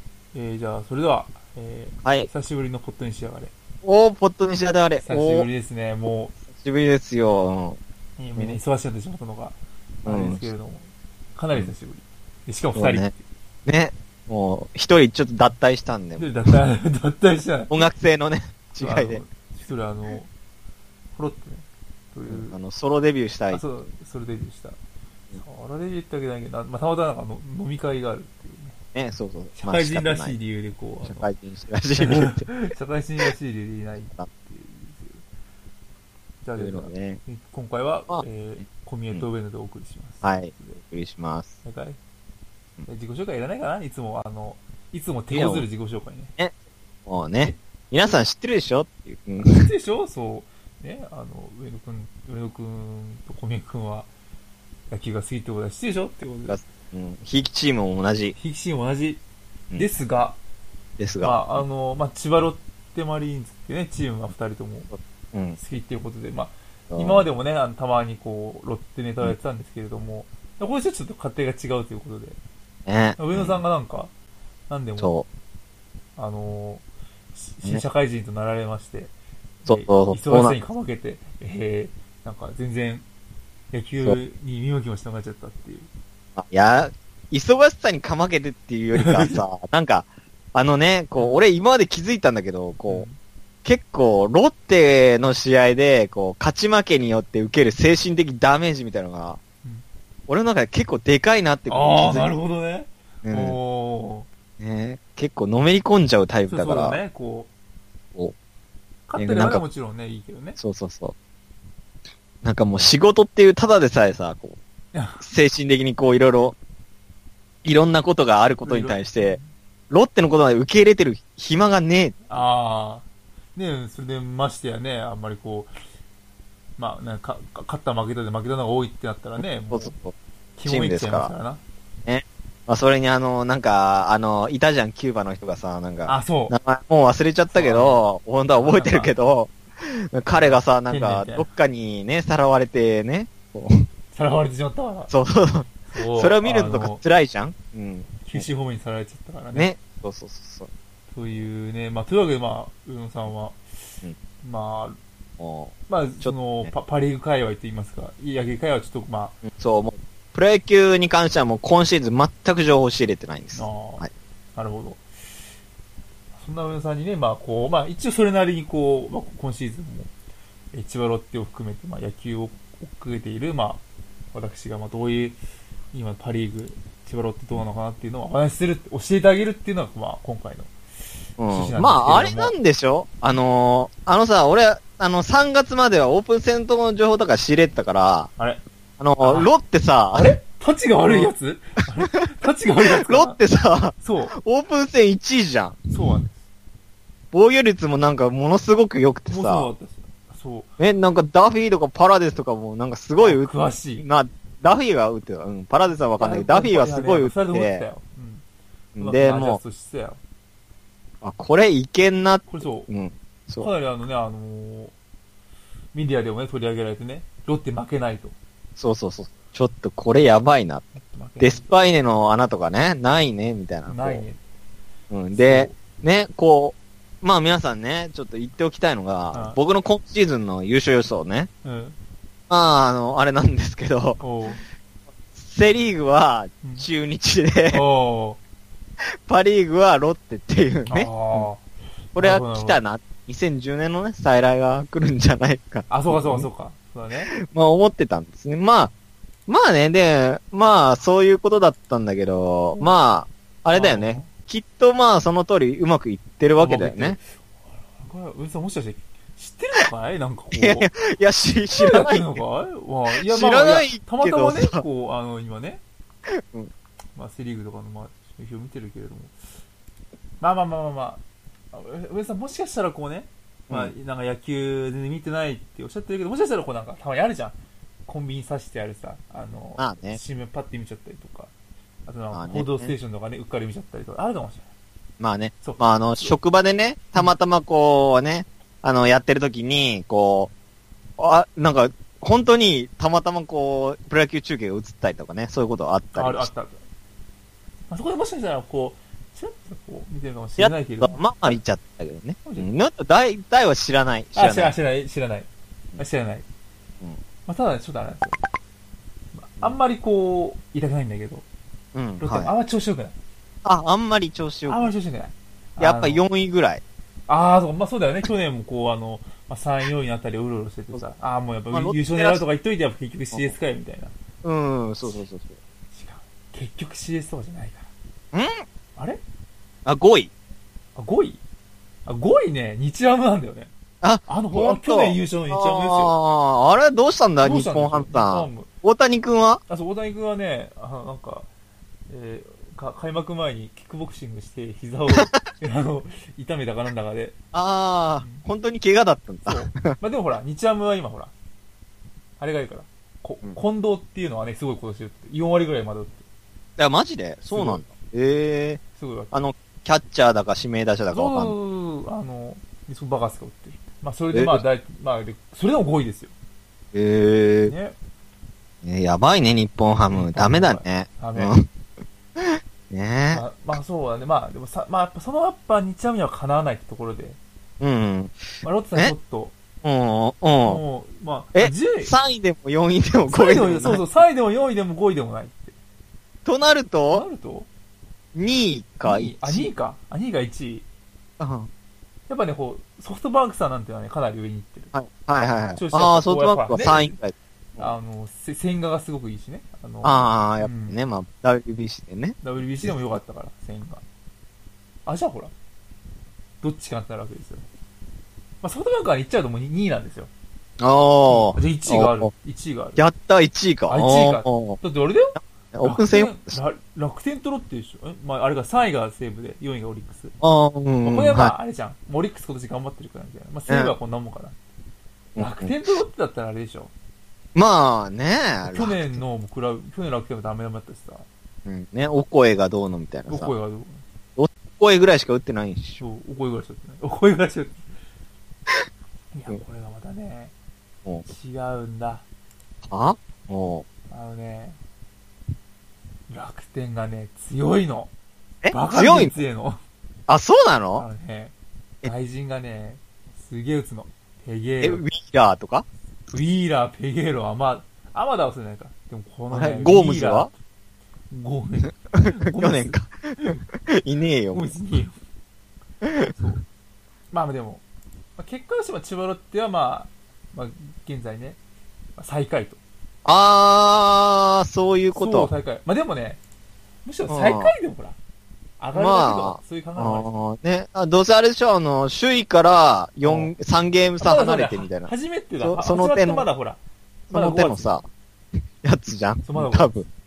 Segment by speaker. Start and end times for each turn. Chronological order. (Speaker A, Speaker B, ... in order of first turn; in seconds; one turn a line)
Speaker A: 0.3-3.5
Speaker B: 2.0-2.3
Speaker B: 3.8-5.5
Speaker A: 5.0-6.4
Speaker B: 6.5-7.8
Speaker A: 8.2-13.2
Speaker B: 10.1-10.5
Speaker B: 12.8-13.1
Speaker B: 13.7-16.5
Speaker A: 16.2-17.9
Speaker B: 17.7-19.2
Speaker A: 18.8-20.3
Speaker A: 21.1-22.6
Speaker B: 22.3-23.6
Speaker A: 23.5-24.8
Speaker A: 25.4-28.8
Speaker B: 28.9-30.4
Speaker A: 29.6-31.3
Speaker B: 31.0-32.5
Speaker A: 32.0-35.2
Speaker A: 36.4-40.8
Speaker B: 36.6-37.2
Speaker B: 40.2-41.5
Speaker A: 41.6-42.0
Speaker A: 42.9-46.3
Speaker B: 45.3-45.7
Speaker B: 47.1-49.7
Speaker A: 49.4-54.1
Speaker A: 54.9-56.6
Speaker B: 56.5-58.4
Speaker A: 58.4-59.2
Speaker A: 59.8-60.4
Speaker B: 61.0-61.6
Speaker A: 61.2-64.9
Speaker B: 65.3-65.6
Speaker A: 65.6-72.4
Speaker B: 66.9-67.2
Speaker B: 72.9-73.6
Speaker A: 73.2-74.1
Speaker A: 74.7-75.2
Speaker B: 75.0-75.2
Speaker A: 76.2-79.1
Speaker A: 79.6-83.1
Speaker B: 79.7-80.6
Speaker A: 83.7-85.9
Speaker B: 86.4-93.1
Speaker A: 88.9-89.5
Speaker A: 92.9-93.2
Speaker B: 93.7-99.4
Speaker B: 100.3-102.3
Speaker A: 101.7-104.3
Speaker B: 103.2-103.6
Speaker B: 104.6-107.0
Speaker A: 106.5-107.5
Speaker A: 109.1-110.6
Speaker B: 109.2-109.6
Speaker B: 110.6-111.1
Speaker B: 112.4-114.6
Speaker A: 114.9-115.3
Speaker B: 115.2-116.6
Speaker B: 117.6-119.4
Speaker A: 118.6-119.5
Speaker B: 119.9-122.2
Speaker A: 122.3-125.7
Speaker A: 126.8-130.0
Speaker B: 129.4-131.3
Speaker A: 130.6-131.6
Speaker B: 132.1-143.8
Speaker A: 136.1-136.5
Speaker A: 137.5-139.2
Speaker A: 140.3-141.5
Speaker A: 144.1-145.1
Speaker B: 145.1-148.5
Speaker A: 145.9-147.0
Speaker A: 148.2-149.7
Speaker B: 149.5-150.7
Speaker A: 151.1-155.0
Speaker B: 155.4-156.7
Speaker A: 155.9-159.4
Speaker B: 159.5-164.1
Speaker A: 163.5-165.0
Speaker A: 166.3-170.1
Speaker A: 170.7-175.4
Speaker A: 175.9-180.7
Speaker B: 181.4-188.3
Speaker A: 181.5-182.6
Speaker A: 188.4-188.6
Speaker B: 189.0-190.4
Speaker A: 189.2-189.5
Speaker A: 190.1-193.4
Speaker B: 191.1-191.3
Speaker B: 193.0-196.0
Speaker A: 194.0-194.4
Speaker A: 195.9-196.4
Speaker B: 197.3-199.7
Speaker A: 199.3-200.7
Speaker B: 200.8-207.9
Speaker A: 203.2-204.1
Speaker A: 206.2-208.4
Speaker B: 209.0-209.6
Speaker A: 209.0-210.2
Speaker B: 211.2-213.7
Speaker A: 212.5-212.9
Speaker A: 213.6-214.9
Speaker A: 215.9-218.3
Speaker B: 218.8-224.2
Speaker A: 220.9-221.7
Speaker A: 223.9-224.4
Speaker B: 225.1-231.5
Speaker A: 225.3-225.8
Speaker A: 229.3-229.6
Speaker A: 231.6-232.0
Speaker B: 232.5-234.2
Speaker A: 234.2-234.6
Speaker B: 235.3-237.8
Speaker A: 236.6-236.9
Speaker A: 237.7-238.4
Speaker B: 239.2-241.5
Speaker A: 240.9-242.8
Speaker B: 242.2-246.5
Speaker A: 245.9-247.3
Speaker B: 247.3-248.9
Speaker B: 249.5-257.2
Speaker A: 253.7-254.3
Speaker A: 256.6-260.9
Speaker B: 260.5-262.4
Speaker A: 261.8-265.8
Speaker B: 263.2-264.8
Speaker B: 266.3-266.7
Speaker A: 267.1-269.5
Speaker A: 270.4-281.5
Speaker B: 279.8-280.2
Speaker A: 282.1-284.7
Speaker B: 282.3-282.9
Speaker B: 285.2-290.5
Speaker A: 285.6-286.4
Speaker B: 291.2-296.5
Speaker A: 296.1-296.8
Speaker A: 297.9-301.6
Speaker B: 300.6-304.8
Speaker A: 302.4-302.8
Speaker A: 304.4-306.4
Speaker A: 307.5-308.4
Speaker A: 309.3-311.4
Speaker B: 311.9-312.5
Speaker A: 312.2-313.2
Speaker B: 313.6-314.9
Speaker A: 314.7-316.2
Speaker B: 315.8-316.8
Speaker A: 317.3-324.1
Speaker B: 321.7-322.4
Speaker B: 324.4-325.5
Speaker A: 325.9-327.9
Speaker B: 328.3-328.6
Speaker A: 329.0-329.2
Speaker B: 329.9-330.3
Speaker A: 331.0-331.4
Speaker A: 332.1-333.7
Speaker B: 334.0-339.6
Speaker A: 334.2-336.1
Speaker A: 337.4-338.7
Speaker A: 339.7-341.5
Speaker A: 342.1-347.3
Speaker B: 347.5-349.9
Speaker A: 348.2-348.5
Speaker A: 349.5-351.3
Speaker A: 352.4-356.2
Speaker B: 356.8-361.6
Speaker A: 357.5-357.9
Speaker A: 359.0-359.4
Speaker A: 361.1-366.3
Speaker B: 364.3-364.6
Speaker B: 366.9-367.7
Speaker A: 367.7-368.0
Speaker B: 368.8-371.7
Speaker A: 370.1-371.6
Speaker B: 372.4-373.4
Speaker A: 373.3-377.4
Speaker B: 377.8-378.4
Speaker A: 378.6-379.6
Speaker B: 379.8-380.8
Speaker A: 380.6-382.1
Speaker B: 381.6-384.1
Speaker A: 383.3-385.8
Speaker B: 386.4-387.3
Speaker A: 387.1-387.7
Speaker B: 388.4-389.7
Speaker A: 389.0-390.9
Speaker B: 391.4-391.7
Speaker A: 392.3-394.9
Speaker B: 394.9-397.9
Speaker A: 395.8-397.1
Speaker A: 397.8-401.0
Speaker B: 400.0-403.2
Speaker A: 402.4-404.0
Speaker A: 405.1-405.5
Speaker A: 406.6-407.6
Speaker A: 408.6-410.3
Speaker B: 410.8-412.3
Speaker A: 411.3-413.0
Speaker B: 413.0-414.8
Speaker A: 413.9-420.3
Speaker B: 415.7-416.6
Speaker B: 420.4-421.6
Speaker A: 421.0-424.6
Speaker B: 423.7-423.9
Speaker B: 425.4-425.8
Speaker A: 425.4-426.9
Speaker B: 427.6-429.2
Speaker A: 428.6-431.3
Speaker B: 431.7-433.5
Speaker A: 433.3-434.1
Speaker B: 434.4-436.0
Speaker A: 436.0-437.9
Speaker A: 439.3-440.5
Speaker A: 441.2-442.2
Speaker B: 442.9-443.9
Speaker A: 444.1-444.8
Speaker A: 446.3-448.1
Speaker B: 448.6-449.4
Speaker A: 448.7-449.8
Speaker B: 450.3-451.1
Speaker A: 451.0-455.0
Speaker B: 454.8-455.9
Speaker A: 456.3-460.6
Speaker B: 459.5-460.5
Speaker A: 461.3-463.6
Speaker B: 462.6-464.7
Speaker A: 464.5-465.2
Speaker B: 466.0-466.5
Speaker A: 466.3-466.6
Speaker A: 467.3-467.8
Speaker A: 468.4-471.6
Speaker A: 472.2-472.8
Speaker B: 473.2-475.5
Speaker A: 475.1-476.4
Speaker A: 477.1-478.2
Speaker B: 477.3-477.7
Speaker A: 478.8-480.3
Speaker B: 478.9-486.5
Speaker A: 483.2-483.5
Speaker A: 484.2-486.8
Speaker B: 487.3-488.1
Speaker A: 487.3-487.9
Speaker B: 488.8-490.0
Speaker A: 489.4-490.1